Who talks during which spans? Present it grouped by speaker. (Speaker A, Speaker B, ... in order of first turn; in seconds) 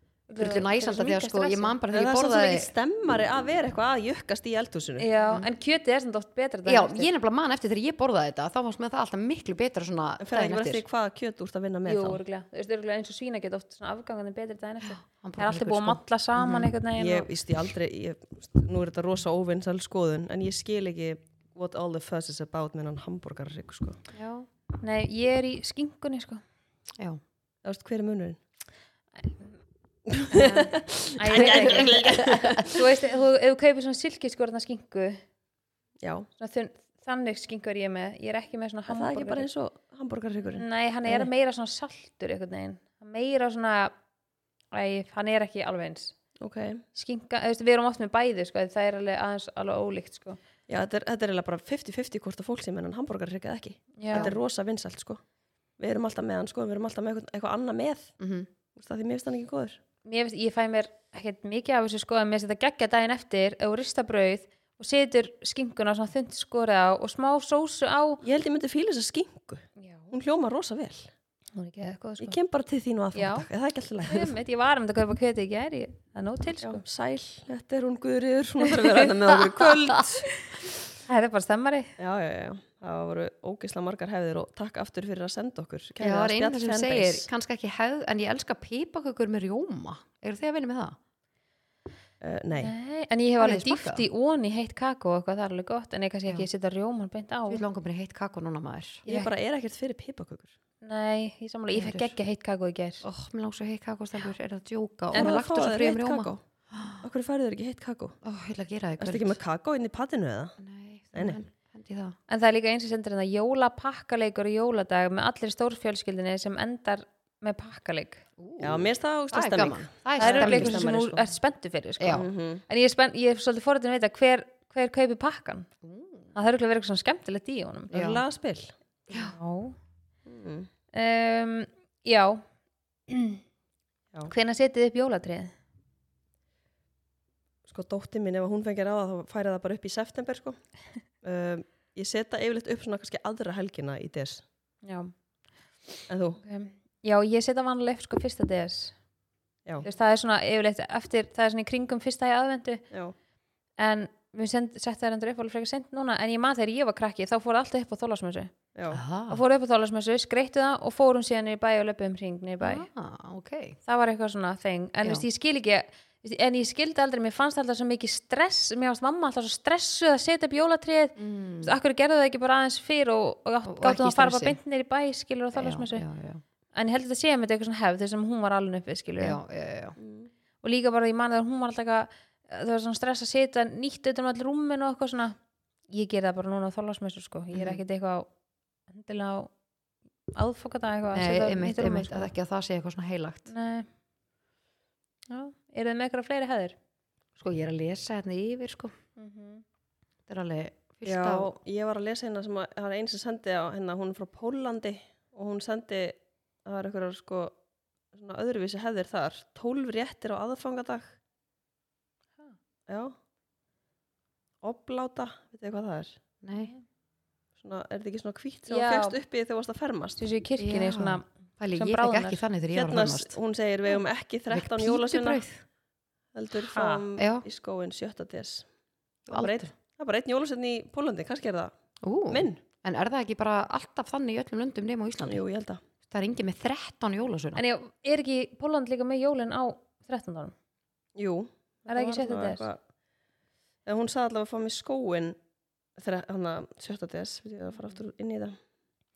Speaker A: 0.3-1.8, 5.0-7.1, 11.8-17.3, 24.8-26.4, 30.3-35.2, 36.4-39.5, 40.5-43.9, 44.7-46.1, 46.9-50.4, 54.0-54.3, 60.0-68.2, 69.8-70.1, 71.5-72.4, 73.1-73.5, 74.1-76.8, 81.0-81.9, 92.6-97.6, 99.1-99.3, 100.8-103.0, 112.3-118.2, 120.2-125.7, 126.3-127.9, 129.1-129.8, 130.9-132.4, 133.1-133.4, 134.3-135.5, 144.8-145.1, 146.4-148.9, 149.8-152.8, 153.8-158.5, 159.3-162.8, 163.8-176.0, 176.7-179.4, 180.6-185.3, 185.9-188.3, 188.9-189.5, 190.3-192.3, 193.5-193.9, 195.3-196.7, 199.2-199.6, 218.7-219.2, 220.2-222.4, 226.6-227.0, 237.5-240.5, 241.9-242.7
Speaker B: 0.3-2.7, 6.7-10.8, 14.9-16.7, 24.1-24.5, 31.4-32.7, 58.2-58.5, 86.0-91.0, 93.4-94.0, 97.5-99.0, 101.7-102.1, 103.0-107.0, 108.2-109.4, 110.6-112.2, 118.4-120.8, 122.0-122.2, 125.8-126.3, 127.9-128.2, 129.1-129.3, 158.9-159.4, 162.6-163.8, 171.2-171.7, 173.7-174.6, 175.5-176.4, 179.2-180.0, 187.5-187.8, 191.1-193.5, 197.4-198.9, 200.3-201.5, 216.4-216.7, 220.6-223.3, 224.5-225.6, 227.2-227.4, 229.3-229.7, 232.0-235.4, 236.1-237.6
Speaker C: 1.9-5.1, 10.2-12.2, 17.0-24.0, 27.6-28.4, 30.1-32.7, 36.0-36.3, 38.9-40.6, 46.4-46.8, 50.7-55.2, 55.8-58.1, 58.7-59.8, 68.2-71.1, 72.2-74.3, 76.6-80.3, 82.0-87.3, 92.2-92.7, 99.0-100.5, 105.1-106.4, 107.0-108.2, 109.0-110.5, 111.1-111.4, 118.6-121.3, 122.1-122.6, 127.9-128.7, 130.2-130.7, 137.7-140.6, 141.2-144.4, 146.1-146.4, 158.7-159.0, 180.0-180.3, 201.0-207.5, 208.1-211.1, 212.9-213.1, 214.6-216.2, 217.6-220.2, 222.7-225.4, 226.3-228.7, 229.2-231.7, 232.3-232.6, 235.2-235.8, 241.2-242.8, 243.8-245.3, 246.0-248.6